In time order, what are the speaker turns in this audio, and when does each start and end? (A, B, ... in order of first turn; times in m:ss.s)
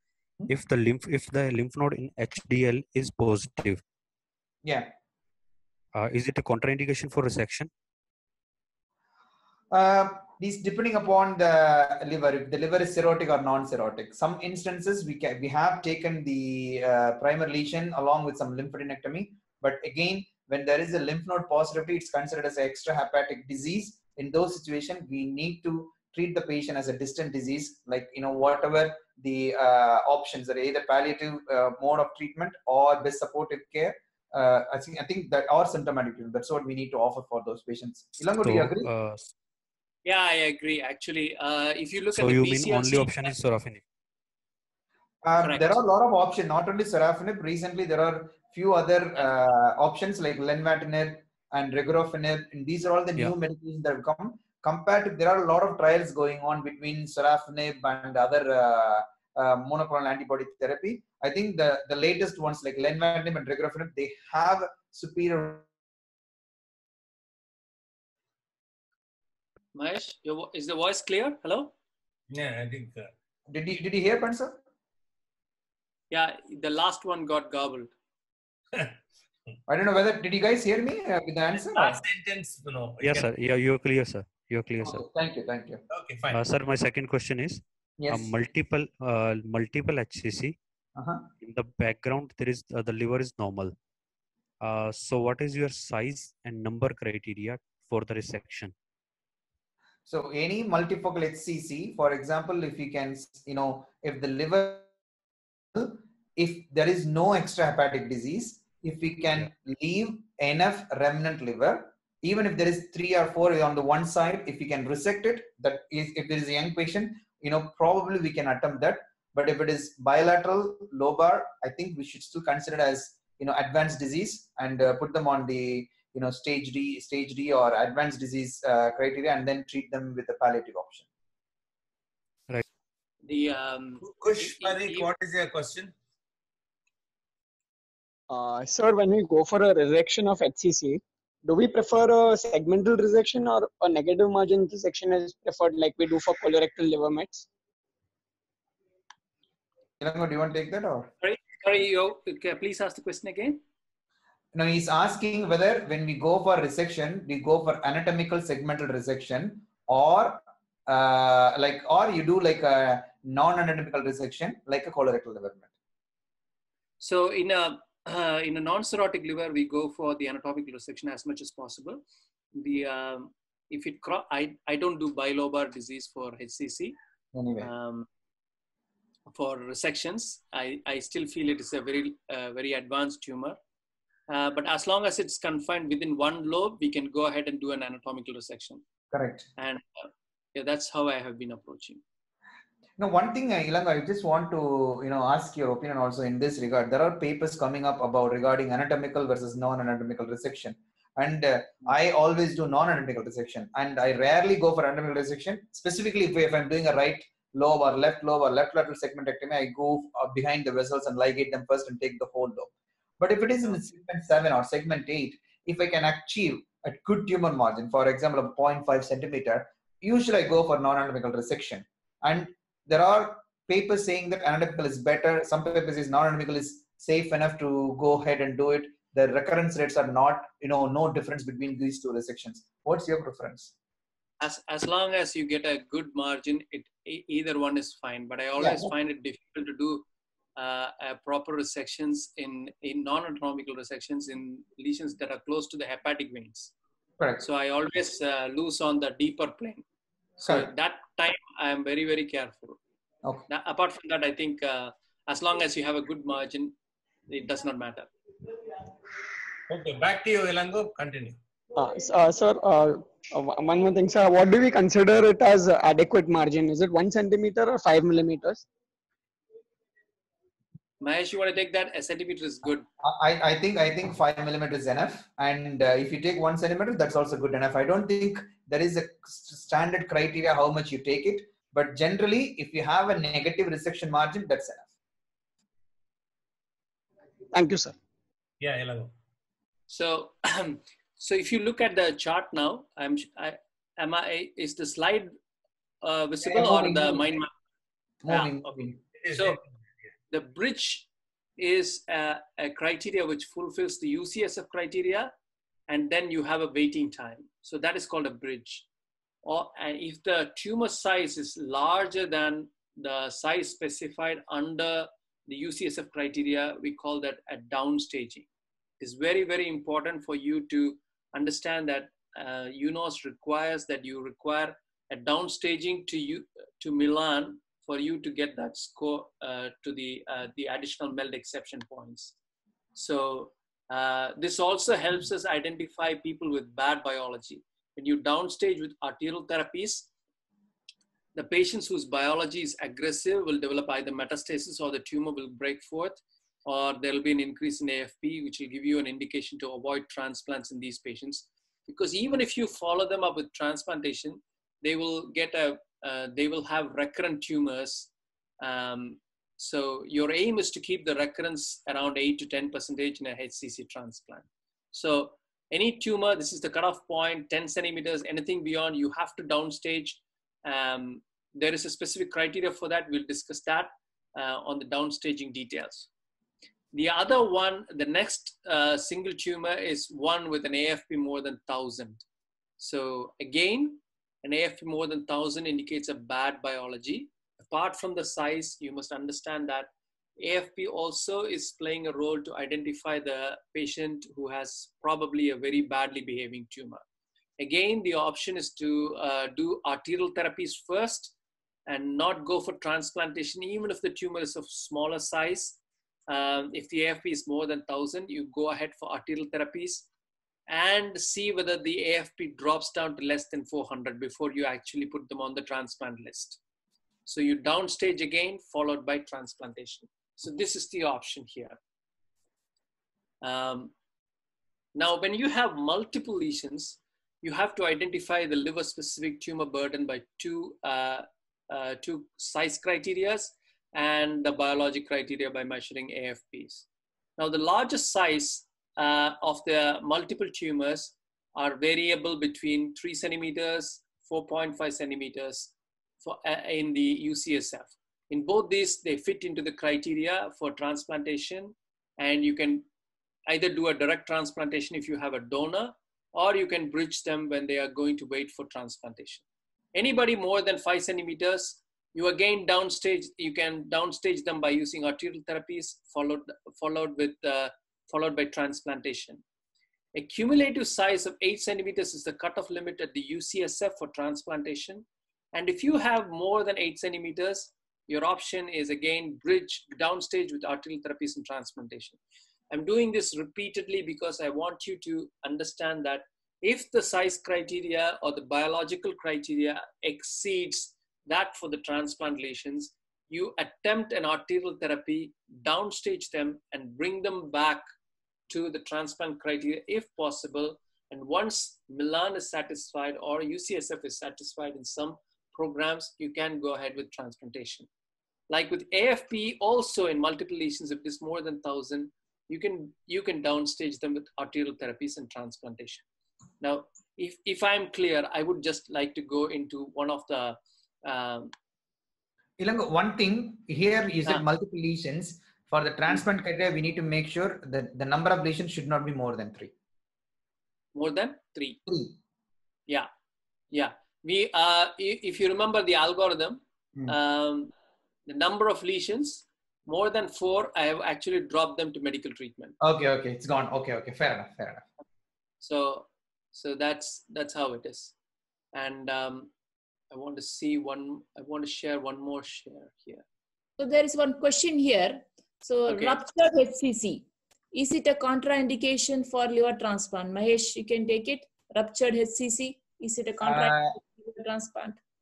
0:00.5-0:03.8 A
0:04.6-0:04.9 B
0:05.9-0:07.7 A
0:09.7-0:38.9 B
0:38.4-0:39.3 A
0:40.0-0:43.3 C
0:42.1-0:43.8 A
0:45.2-1:05.7 B
0:45.4-0:45.8 C
1:09.7-1:11.7 C
1:12.3-1:13.1 D
1:13.5-1:14.6 B
1:16.1-1:17.9 C
1:19.7-1:22.0 B
1:21.7-1:23.3 D
1:23.0-1:25.0 A
1:24.8-1:25.8 B
1:25.9-1:26.4 D
1:26.3-1:30.6 A
1:28.0-1:28.3 B
1:31.0-1:31.2 B
1:31.4-1:33.7 A
1:34.6-1:38.7 A
1:40.1-1:44.8 B
1:45.7-2:11.1 B
2:13.2-2:15.1 C
2:14.0-2:15.9 D
2:18.3-2:27.4 E
2:30.0-2:31.1 B
2:31.2-2:33.6 C
2:34.5-2:45.7 B
2:47.0-2:52.0 C
2:52.6-2:57.0 C
2:57.3-2:57.7 B
2:57.6-2:58.1 C
2:59.3-3:03.6 C
3:04.3-3:08.8 C
3:09.1-3:09.4 B
3:09.6-3:12.0 C
3:13.0-3:53.7 B
3:54.4-4:00.0 C
3:58.6-3:58.9 B
4:00.6-4:06.7 C
4:07.4-4:09.8 C
4:10.4-4:12.8 C
4:10.4-4:10.7 B
4:13.5-4:16.7 C
4:17.3-4:18.1 C
4:19.7-4:21.4 D
4:21.7-4:28.6 E
4:31.0-4:32.9 C
4:33.0-4:44.9 B
4:47.5-4:47.9 E
4:48.6-4:49.1 D
4:49.9-4:55.3 C
4:56.0-4:57.5 C
4:56.4-4:57.4 B
4:58.2-4:59.0 B
4:58.3-4:58.7 C
4:59.2-4:59.6 D
4:59.3-4:59.6 C
5:00.3-5:01.1 C
5:01.6-5:05.3 C
5:05.9-5:08.8 C
5:09.4-5:18.5 C
5:19.0-5:32.3 C
5:32.9-5:40.1 C
5:41.3-5:58.1 C
5:58.6-6:16.1 C
6:16.9-6:22.2 C
6:22.8-6:37.0 C
6:37.6-6:41.3 C
6:41.9-6:45.8 C
6:46.3-6:50.1 C
6:50.7-6:56.6 C
6:57.2-7:01.8 C
7:03.4-7:03.9 C
7:04.9-7:16.8 C
7:17.4-7:32.8 C
7:33.5-7:39.4 C
7:39.9-7:49.4 C
7:50.1-8:02.2 C
8:02.7-8:17.8 C
8:18.5-8:27.9 C
8:28.5-8:36.0 C
8:36.6-8:41.5 C
8:42.6-8:49.7 B
8:50.9-8:51.8 C
8:51.9-8:52.1 B
8:53.7-8:57.7 C
8:58.3-9:02.7 C
9:02.8-9:04.9 B
9:05.6-9:08.1 C
9:08.7-9:09.5 C
9:10.1-9:13.2 C
9:13.8-9:25.0 F
9:15.9-9:16.2 C
9:23.4-9:23.9 B